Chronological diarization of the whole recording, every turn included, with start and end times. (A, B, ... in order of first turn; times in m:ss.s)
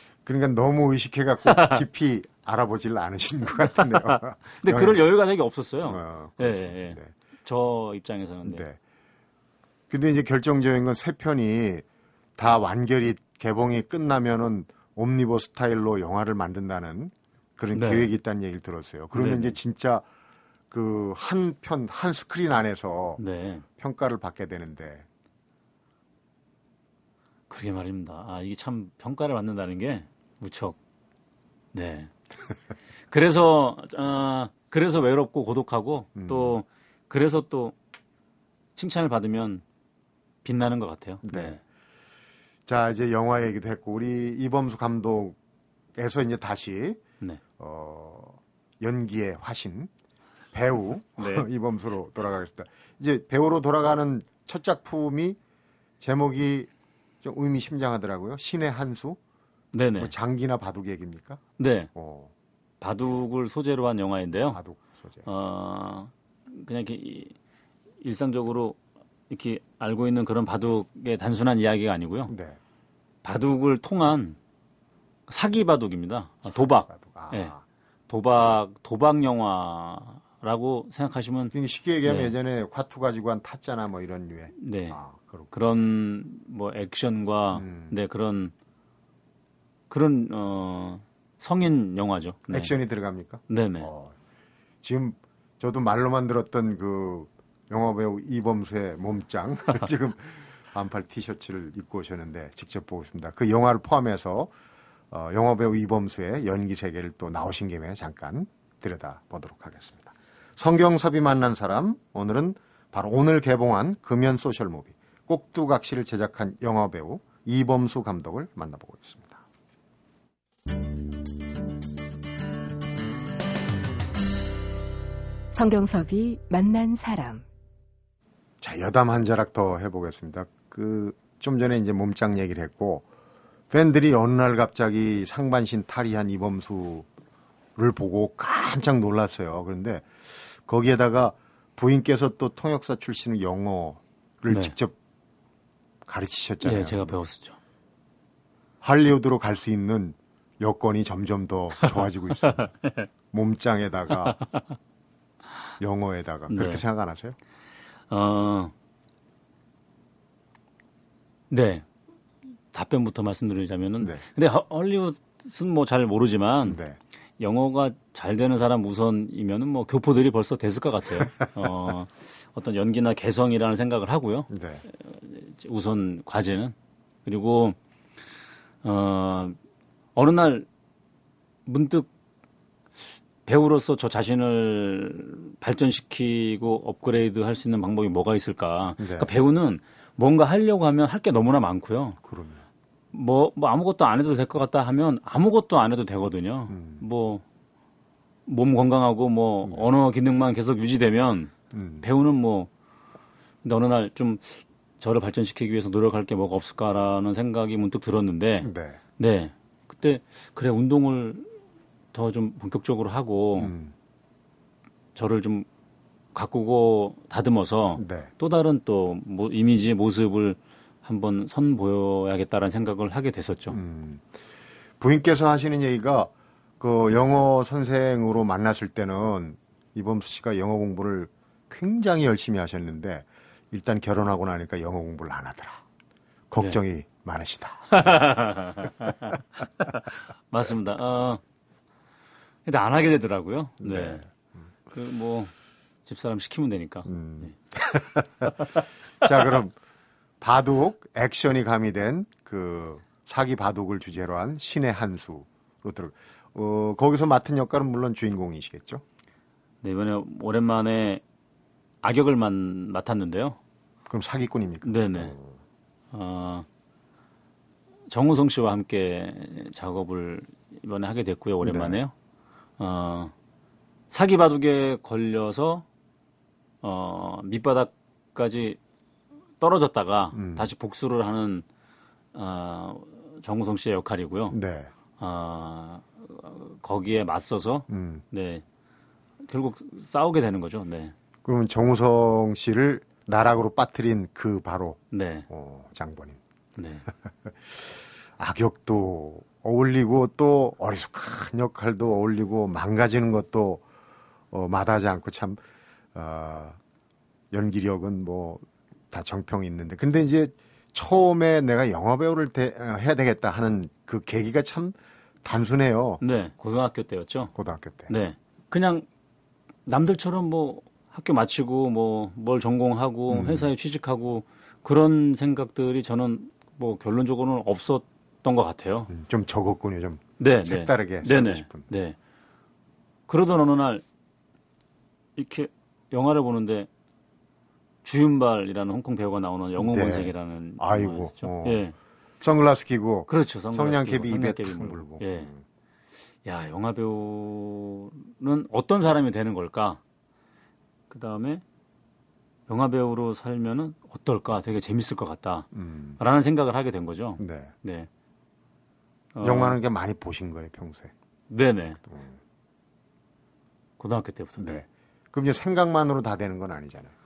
0:00.2-0:05.0 A
0:01.4-0:01.8 B
0:04.0-0:08.6 B
0:05.8-0:07.1 A
0:08.4-0:08.8 A
0:09.9-0:11.8 A
0:12.4-0:20.0 A
0:17.7-0:18.1 B
0:19.1-0:19.6 B
0:20.7-0:23.2 A
0:23.2-0:23.6 B
0:23.8-0:25.1 A
0:27.5-0:30.8 B
0:31.7-0:32.1 B
0:33.1-0:37.7 B
0:36.2-0:36.6 A
0:38.8-0:39.6 B
0:40.4-0:41.6 B
0:41.2-0:41.6 A
0:42.7-0:45.4 A
0:45.9-0:47.0 A
0:47.6-0:49.9 A
0:50.5-0:55.4 A
0:51.2-0:51.5 B
0:56.0-0:56.7 A
0:57.2-0:59.2 A
0:59.7-1:00.1 B
1:00.0-1:01.4 A
1:01.6-1:01.9 B
1:01.9-1:02.3 A
1:02.8-1:04.6 B
1:04.5-1:05.2 A
1:05.2-1:07.3 B
1:08.0-1:08.8 B
1:09.3-1:12.3 B
1:12.3-1:12.6 A
1:13.2-1:14.4 B
1:15.3-1:17.5 B
1:16.4-1:17.6 A
1:18.1-1:21.5 B
1:21.5-1:25.5 A
1:22.0-1:22.3 B
1:24.6-1:25.0 B
1:25.5-1:28.5 B
1:27.5-1:27.9 A
1:29.9-1:32.7 B
1:32.5-1:34.1 A
1:33.5-1:33.9 B
1:34.8-1:44.5 A
1:45.1-1:59.4 A
2:05.5-2:07.4 C
2:08.6-2:13.0 A
2:13.7-2:17.1 A
2:17.8-2:24.9 A
2:24.5-2:24.7 B
2:26.0-2:27.2 A
2:26.6-2:27.6 B
2:28.8-2:32.8 A
2:33.3-2:34.4 A
2:35.8-2:37.4 A
2:36.5-2:36.8 B
2:38.1-2:38.7 B
2:41.5-2:41.9 B
2:42.7-2:46.8 B
2:46.6-2:47.0 A
2:47.4-2:54.5 B
2:54.5-2:54.8 A
2:55.0-2:57.8 B
2:58.8-2:59.6 B
3:00.1-3:00.7 B
3:01.7-3:02.1 B
3:03.4-3:12.2 B
3:09.0-3:09.3 A
3:12.2-3:12.6 A
3:13.1-3:17.4 B
3:16.7-3:17.0 A
3:18.4-3:22.7 B
3:21.7-3:22.0 A
3:23.6-3:31.5 B
3:28.6-3:29.0 A
3:32.1-3:33.7 B
3:33.6-3:33.9 A
3:35.1-3:35.7 B
3:36.3-3:43.8 B
3:38.0-3:38.3 A
3:43.7-3:44.4 A
3:45.0-3:55.8 A
3:56.5-3:59.1 A
3:57.9-4:01.4 B
4:02.6-4:04.2 B
4:03.8-4:04.6 A
4:04.9-4:05.5 B
4:06.0-4:07.5 B
4:07.1-4:08.7 A
4:09.2-4:09.8 A
4:10.4-4:19.0 A
4:19.8-4:21.2 B
4:22.0-4:23.6 B
4:24.1-4:25.6 A
4:24.8-4:25.3 B
4:26.1-4:26.6 B
4:28.1-4:32.1 B
4:31.6-4:32.0 A
4:32.8-4:33.3 B
4:34.1-4:35.8 B
4:36.8-4:38.8 B
4:39.6-4:41.6 B
4:40.3-4:40.6 A
4:42.3-4:44.6 B
4:44.5-4:44.9 A
4:45.2-4:48.6 B
4:47.9-4:48.2 A
4:49.4-4:51.1 B
4:51.4-4:56.4 A
4:55.1-4:55.5 B
4:56.8-4:57.1 B
4:57.1-5:03.8 A
5:04.5-5:05.6 A
5:06.1-5:06.8 A
5:07.5-5:16.2 A
5:16.2-5:17.5 B
5:17.5-5:18.1 A
5:18.1-5:19.0 B
5:19.8-5:29.1 B
5:23.3-5:23.7 A
5:29.1-5:31.9 A
5:30.4-5:32.2 B
5:33.3-5:34.0 B
5:35.4-5:36.9 B
5:38.0-5:41.9 B
5:39.8-5:41.8 A
5:42.4-5:45.6 A
5:43.3-5:45.5 B
5:46.4-5:50.0 B
5:51.1-5:51.6 B
5:52.7-5:55.7 B
5:55.7-5:56.2 A
5:56.2-5:58.1 B
5:57.4-5:57.7 A
5:59.3-5:59.8 B
5:59.4-6:01.1 A
6:01.5-6:02.0 B
6:02.0-6:02.4 A
6:04.0-6:04.8 B
6:04.6-6:07.1 A